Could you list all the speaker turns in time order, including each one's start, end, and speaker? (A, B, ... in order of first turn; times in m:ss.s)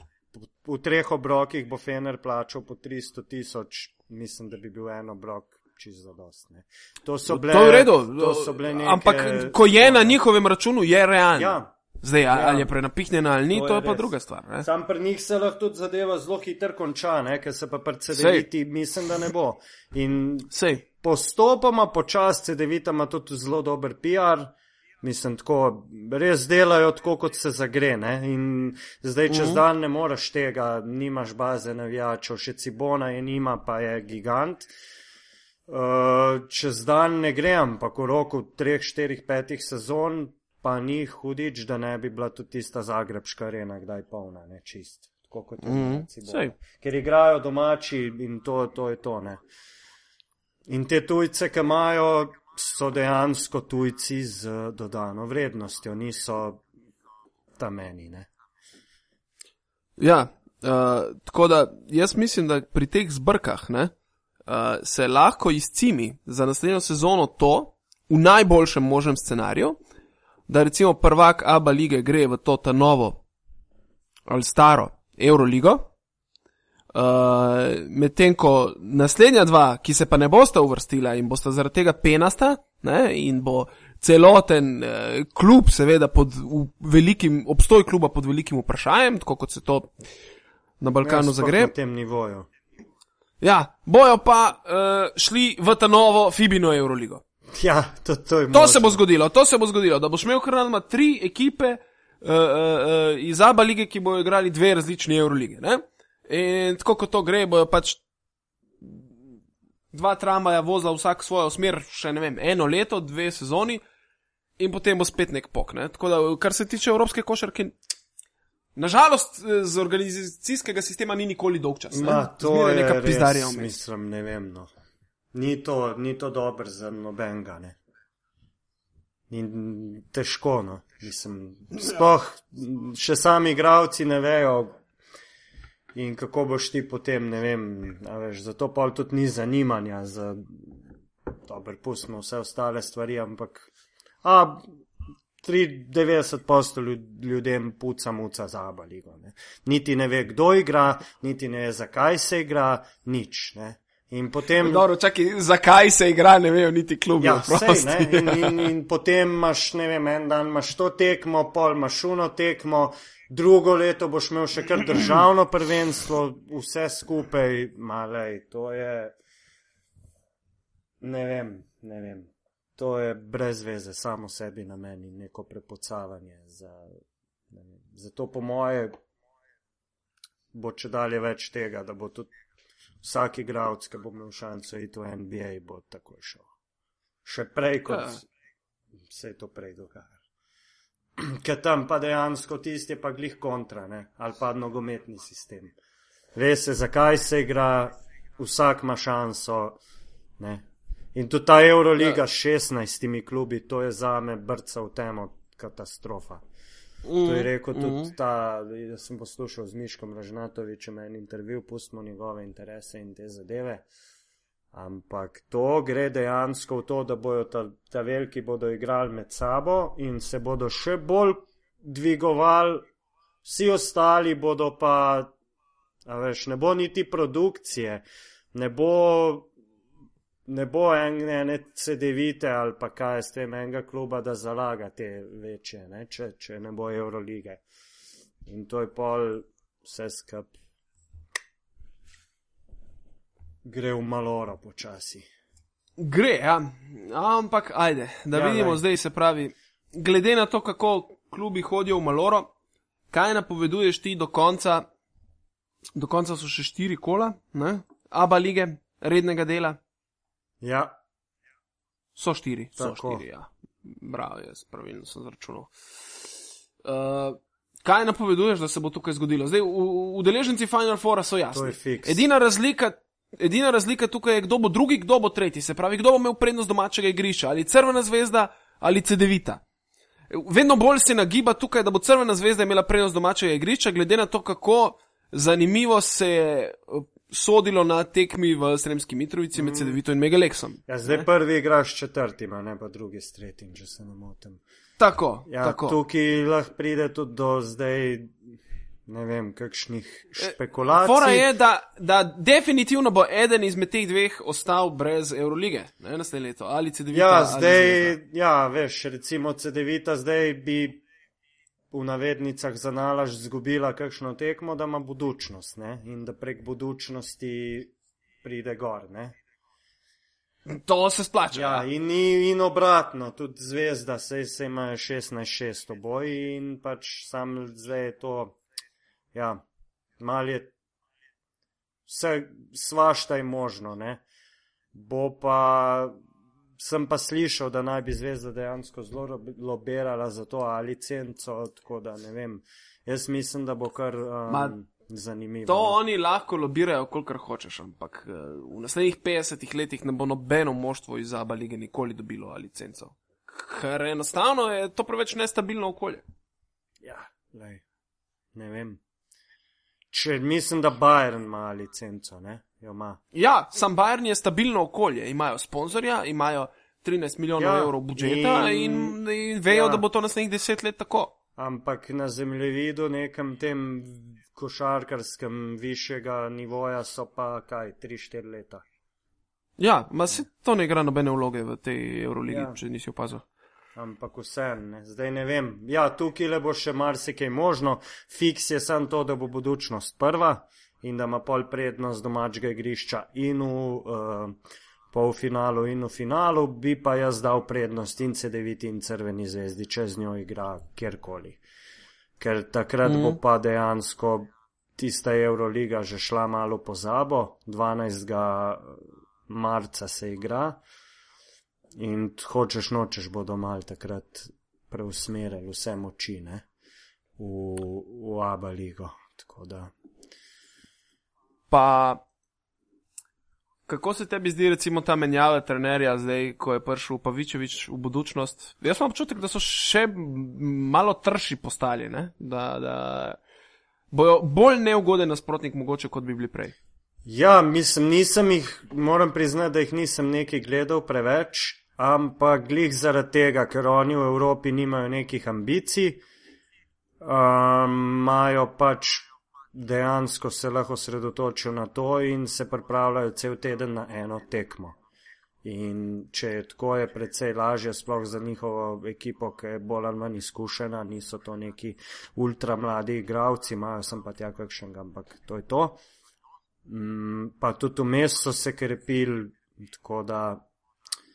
0:00.3-0:10.2 A
0:07.3-0:14.7 B
0:11.3-0:11.7 A
0:12.3-0:12.7 A
0:13.5-0:14.1 A
0:14.6-0:34.7 A
0:18.1-0:18.5 B
0:20.5-0:20.8 B
0:29.3-0:29.6 B
0:35.7-0:49.4 A
0:45.6-0:46.5 B
0:50.7-0:56.6 A
0:57.6-0:58.3 A
1:00.0-1:03.9 B
1:04.5-1:09.8 B
1:10.5-1:13.2 B
1:14.3-1:15.9 B
1:16.9-1:29.9 B
1:30.8-1:31.7 B
1:31.0-1:32.5 A
1:33.4-1:37.2 B
1:37.5-1:39.0 A
1:38.5-1:48.0 B
1:48.8-1:49.1 B
1:49.9-1:53.8 B
1:54.6-1:57.7 B
1:58.8-2:03.8 B
2:01.9-2:04.7 A
2:05.3-2:07.8 A
2:09.3-2:14.8 A
2:15.9-2:23.7 A
2:24.2-2:24.6 A
2:25.4-2:34.8 A
2:34.6-2:38.7 B
2:37.2-2:49.1 A
2:51.0-2:57.0 A
2:57.5-2:58.9 A
3:00.5-3:02.3 A
3:03.0-3:06.5 A
3:07.2-3:08.2 A
3:07.9-3:08.2 B
3:09.1-3:10.2 A
3:11.2-3:15.8 A
3:16.3-3:19.8 A
3:20.4-3:26.4 A
3:27.0-3:28.1 B
3:27.2-3:33.9 A
3:34.7-3:42.8 A
3:43.4-3:45.3 A
3:46.0-3:49.5 A
3:50.5-3:57.6 A
3:58.4-4:00.5 A
4:03.6-4:05.3 A
4:06.0-4:12.5 B
4:08.3-4:08.8 A
4:13.1-4:14.9 B
4:16.0-4:19.8 B
4:20.6-4:21.0 A
4:22.2-4:25.7 B
4:22.8-4:23.2 A
4:26.8-4:39.6 B
4:31.5-4:32.2 A
4:40.3-4:51.3 B
4:49.5-4:50.0 A
4:50.9-4:54.6 A
4:55.0-4:56.0 B
4:55.5-4:58.4 A
4:59.1-5:01.5 A
5:00.4-5:08.2 B
5:07.1-5:11.0 A
5:11.9-5:19.4 A
5:20.6-5:21.8 B
5:21.5-5:28.6 A
5:29.3-5:29.6 A
5:30.2-5:30.7 A
5:32.0-5:34.2 A
5:34.9-5:36.1 A
5:36.8-5:46.0 A
5:44.5-5:44.7 B
5:45.6-5:56.2 B
5:57.0-5:57.8 A
5:58.5-5:59.0 A
6:00.1-6:03.2 A
6:03.3-6:11.3 B
6:07.6-6:09.2 A
6:09.7-6:10.0 A
6:11.6-6:18.8 A
6:19.8-6:23.4 B
6:22.5-6:22.8 A
6:23.9-6:34.6 A
6:35.1-6:41.6 A
6:42.4-6:50.8 A
6:43.0-6:43.4 B
6:52.0-6:56.6 A
6:57.4-6:59.9 A
7:01.7-7:02.2 B
7:03.9-7:13.4 B
7:14.1-7:16.7 B
7:17.2-7:26.2 A
7:27.2-7:35.0 A
7:35.6-7:46.0 A
7:46.8-7:50.6 A